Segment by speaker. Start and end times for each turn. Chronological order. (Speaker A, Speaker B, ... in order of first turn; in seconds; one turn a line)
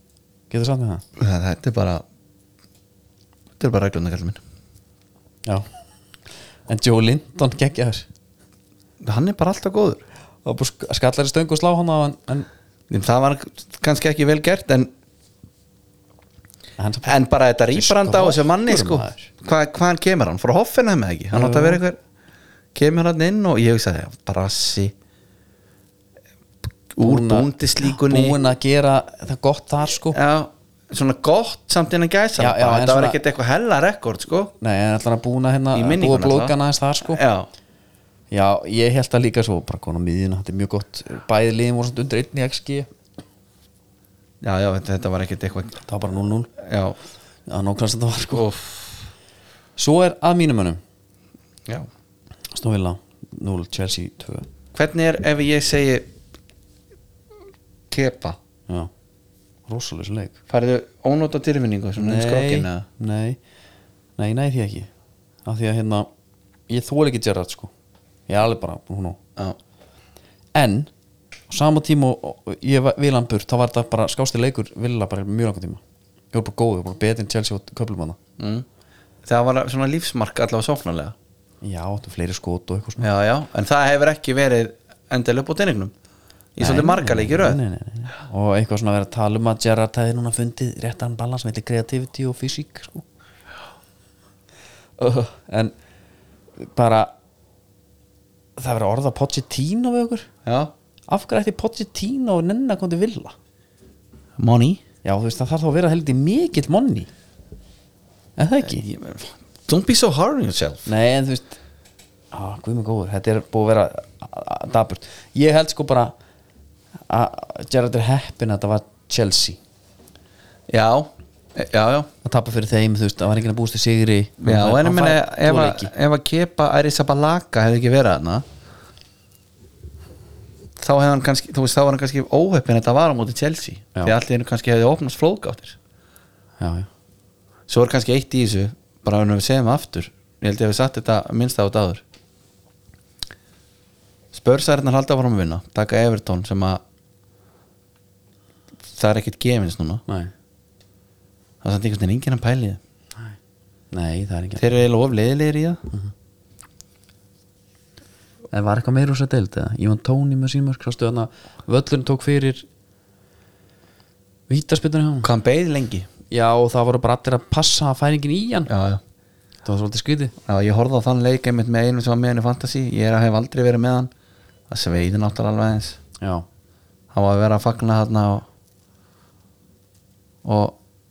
Speaker A: 0.5-1.0
Speaker B: 1.2-2.0
Speaker B: 3.6-4.4
Speaker A: 6.7-8.1
Speaker B: 9.0-10.0
Speaker A: 10.4-12.5
Speaker B: 12.9-14.9
Speaker A: 16.8-19.3
Speaker B: 17.0-22.0
Speaker A: 21.3-21.8
Speaker B: 22.8-24.9
Speaker B: 26.9-28.4
Speaker A: 27.0-30.2
Speaker B: 30.1-34.5
Speaker A: 32.4-33.2
Speaker A: 34.6-37.2
Speaker B: 35.7-37.5
Speaker A: 38.3-42.9
Speaker B: 44.4-45.8
Speaker A: 45.9-46.5
Speaker B: 46.6-47.0
Speaker A: 47.5-48.5
Speaker B: 48.3-49.0
Speaker A: 49.8-50.8
Speaker A: 52.5-54.5
Speaker B: 54.7-56.1
Speaker B: 57.9-58.4
Speaker A: 59.7-60.4
Speaker B: 60.5-62.9
Speaker A: 62.0-63.4
Speaker A: 64.2-64.9
Speaker A: 65.5-66.1
Speaker A: 66.7-67.7
Speaker A: 68.3-69.2
Speaker A: 70.5-70.9
Speaker A: 71.5-75.8
Speaker A: 76.3-78.2
Speaker B: 78.4-78.7
Speaker B: 79.2-81.2
Speaker A: 81.6-83.1
Speaker B: 83.0-85.9
Speaker B: 86.5-87.6
Speaker A: 86.6-93.1
Speaker A: 95.0-95.7
Speaker A: 96.6-97.1
Speaker A: 98.6-100.3
Speaker B: 100.5-100.7
Speaker A: 101.1-103.3
Speaker B: 104.4-104.8
Speaker A: 105.0-107.1
Speaker A: 108.4-108.8
Speaker B: 108.6-110.9
Speaker A: 110.9-111.6
Speaker A: 112.3-116.2
Speaker A: 117.1-119.6
Speaker B: 120.7-122.1
Speaker A: 122.2-125.9
Speaker B: 124.4-128.4
Speaker B: 130.8-135.8
Speaker A: 136.6-136.9
Speaker B: 137.7-142.0
Speaker B: 144.3-146.8
Speaker B: 148.9-150.0
Speaker A: 150.1-150.3
Speaker B: 151.6-152.8
Speaker A: 153.9-154.7
Speaker B: 154.6-155.8
Speaker A: 158.5-162.7
Speaker A: 164.5-165.3
Speaker B: 165.2-166.1
Speaker A: 166.3-168.7
Speaker B: 168.7-169.0
Speaker A: 169.6-170.3
Speaker B: 170.5-174.1
Speaker B: 174.7-176.0
Speaker A: 176.2-176.5
Speaker B: 177.1-178.5
Speaker B: 180.4-180.8